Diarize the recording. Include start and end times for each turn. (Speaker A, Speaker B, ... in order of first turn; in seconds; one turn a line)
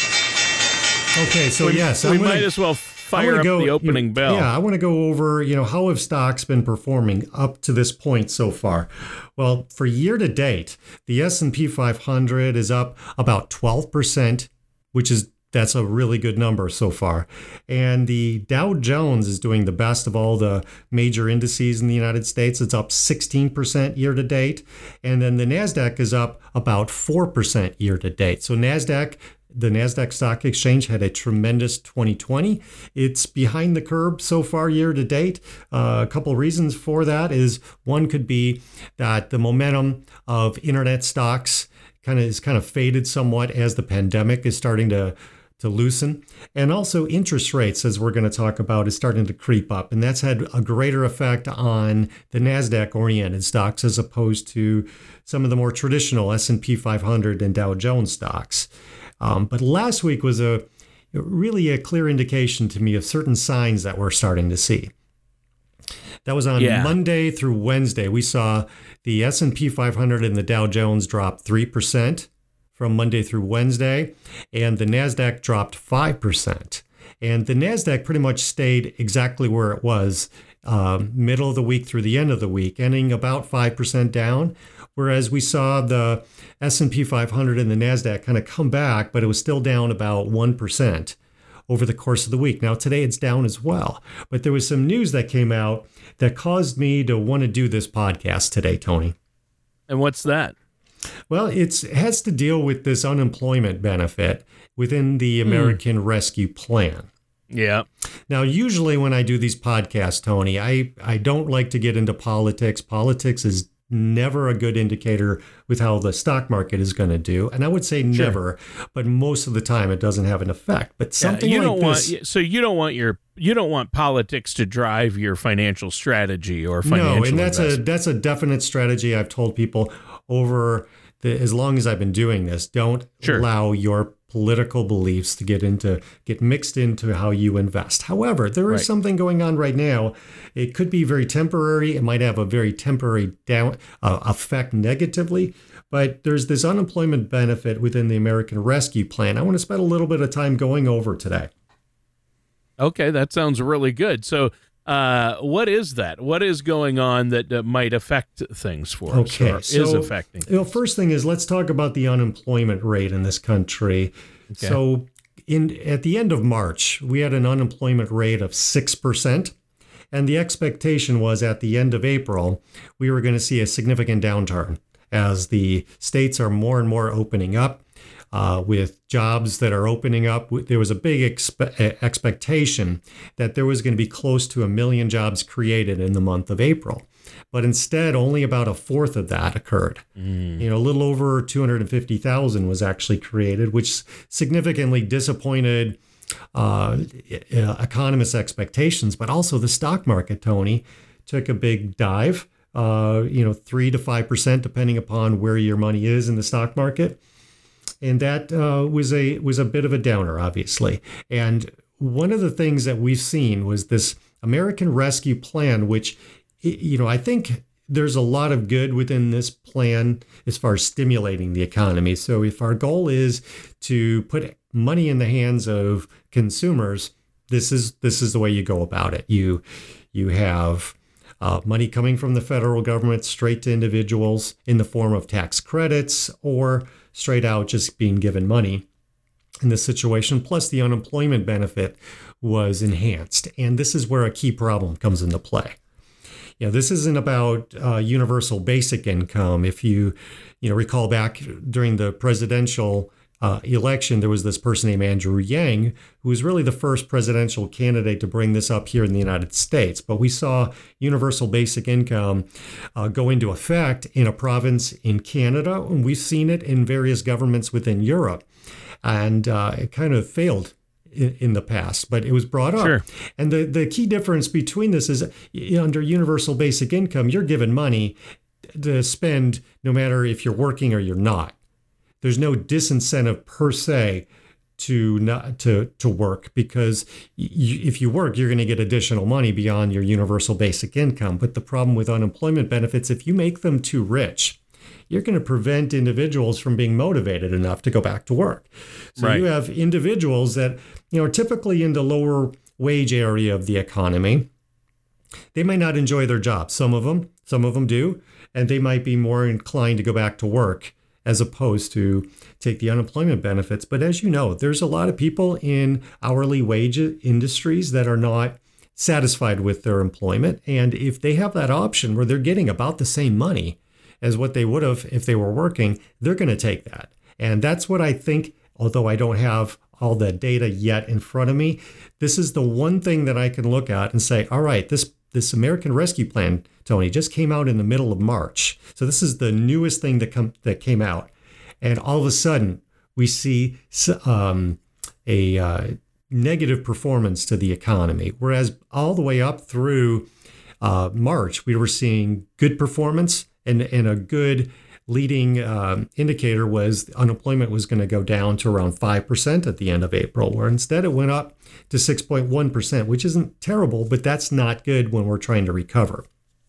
Speaker A: 1.1-2.5
Speaker B: 1.6-4.5
Speaker A: 3.1-58.7
Speaker A: 59.2-64.9
Speaker A: 66.2-91.2
Speaker B: 66.6-67.0
Speaker A: 91.7-99.2
Speaker B: 99.9-100.5
Speaker A: 101.3-107.1
Speaker B: 105.5-105.8
Speaker B: 107.5-107.9
Speaker A: 108.3-122.1
Speaker B: 118.1-118.4
Speaker B: 121.2-127.8
Speaker A: 126.8-151.5
Speaker B: 152.8-160.5
Speaker A: 159.1-169.6
Speaker B: 164.5-164.8
Speaker A: 170.1-190.1
Speaker B: 190.2-190.6
Speaker A: 190.6-196.0
Speaker A: 196.5-207.2
Speaker A: 208.0-238.9
Speaker A: 239.6-245.8
Speaker A: 246.6-268.5
Speaker A: 269.0-278.2
Speaker A: 278.7-281.6
Speaker A: 282.2-284.3
Speaker A: 284.8-294.6
Speaker A: 295.1-304.5
Speaker B: 299.2-299.4
Speaker A: 305.5-350.3
Speaker A: 350.8-366.3